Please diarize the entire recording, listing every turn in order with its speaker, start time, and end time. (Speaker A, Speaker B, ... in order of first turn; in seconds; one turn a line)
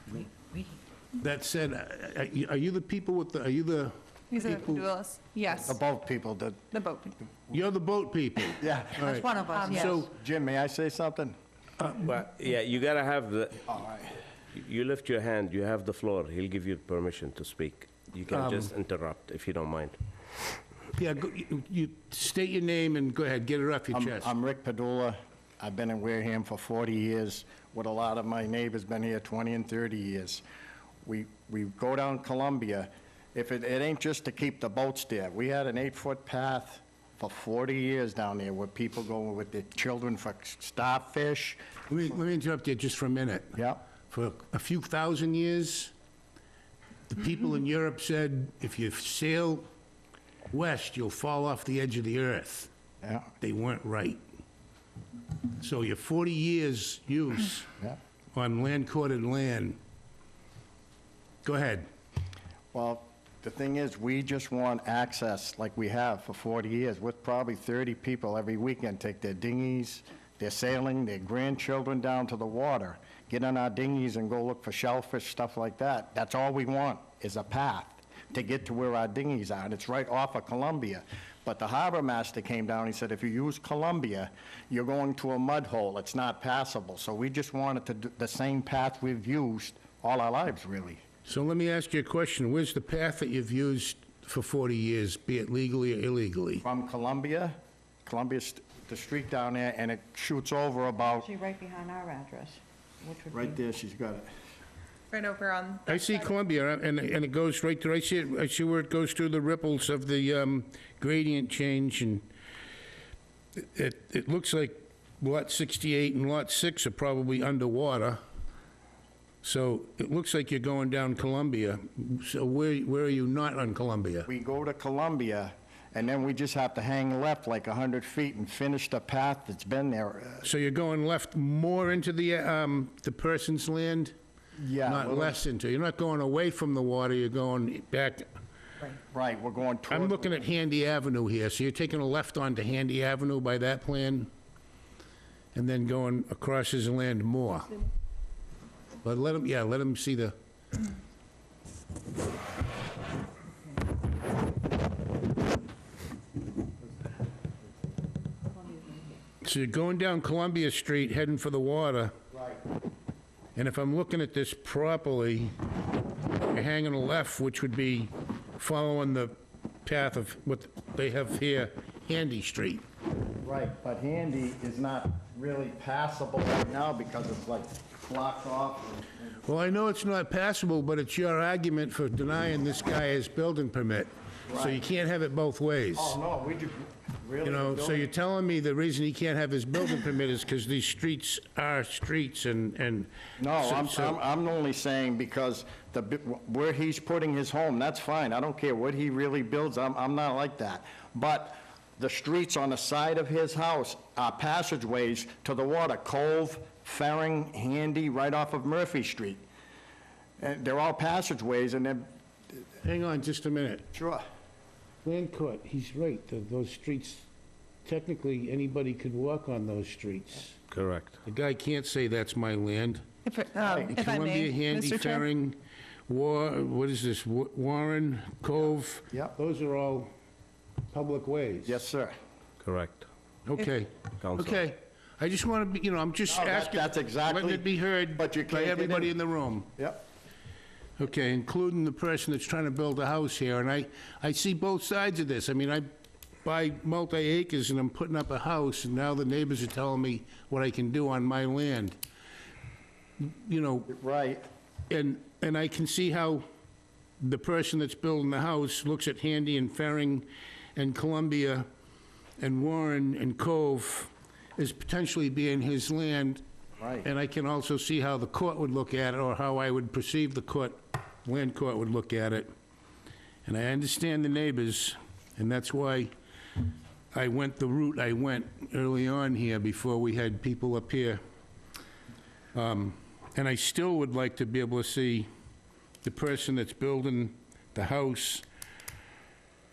Speaker A: 0.1-0.7
Speaker B: 1.2-4.9
Speaker C: 4.3-5.8
Speaker D: 5.6-6.6
Speaker C: 6.7-7.2
Speaker B: 7.5-10.1
Speaker D: 8.6-9.2
Speaker A: 9.0-9.9
Speaker C: 9.2-10.0
Speaker D: 10.0-11.4
Speaker E: 11.8-13.8
Speaker D: 13.7-14.2
Speaker E: 14.5-20.0
Speaker B: 18.3-18.7
Speaker B: 20.9-24.3
Speaker D: 23.9-30.4
Speaker D: 31.1-41.6
Speaker B: 41.9-43.6
Speaker D: 43.6-43.8
Speaker B: 44.1-45.9
Speaker B: 47.1-49.7
Speaker B: 50.5-52.7
Speaker D: 53.0-53.3
Speaker B: 53.4-54.2
Speaker B: 55.6-57.7
Speaker B: 58.3-59.8
Speaker B: 61.4-61.9
Speaker D: 62.7-91.0
Speaker B: 91.3-96.6
Speaker D: 96.6-101.3
Speaker A: 101.2-103.6
Speaker D: 103.3-104.3
Speaker C: 105.1-106.3
Speaker B: 105.9-112.2
Speaker B: 113.6-118.2
Speaker B: 119.4-124.3
Speaker D: 124.3-130.5
Speaker B: 130.4-134.1
Speaker D: 134.6-135.4
Speaker B: 134.8-138.3
Speaker D: 139.1-140.4
Speaker B: 139.9-144.3
Speaker B: 145.5-147.8
Speaker B: 149.0-150.3
Speaker A: 158.6-159.2
Speaker B: 159.4-162.1
Speaker D: 162.3-162.6
Speaker B: 163.6-165.5
Speaker B: 166.5-169.3
Speaker B: 169.8-172.8
Speaker D: 173.4-179.4
Speaker B: 179.4-186.2
Speaker D: 184.5-184.8
Speaker D: 185.9-188.1
Speaker B: 187.4-194.2
Speaker D: 193.4-209.4
Speaker D: 210.4-212.1
Speaker B: 212.8-213.9
Speaker D: 213.9-214.2
Speaker B: 215.0-217.3
Speaker B: 217.8-220.6
Speaker E: 220.7-221.2
Speaker B: 221.2-223.1
Speaker C: 223.2-225.3
Speaker B: 223.6-230.1
Speaker D: 229.1-229.3
Speaker B: 230.9-231.8
Speaker D: 231.7-232.2
Speaker E: 232.6-233.1
Speaker B: 233.5-239.7
Speaker E: 234.2-234.6
Speaker D: 236.3-239.1
Speaker D: 239.8-240.0
Speaker B: 241.0-245.9
Speaker B: 246.4-252.0
Speaker B: 253.2-253.9
Speaker D: 253.9-254.4
Speaker B: 254.9-256.4
Speaker B: 257.2-261.7
Speaker B: 262.4-266.4
Speaker D: 266.8-267.1
Speaker B: 267.0-272.5
Speaker B: 273.4-276.1
Speaker B: 277.1-281.2
Speaker B: 282.5-285.3
Speaker B: 286.0-288.4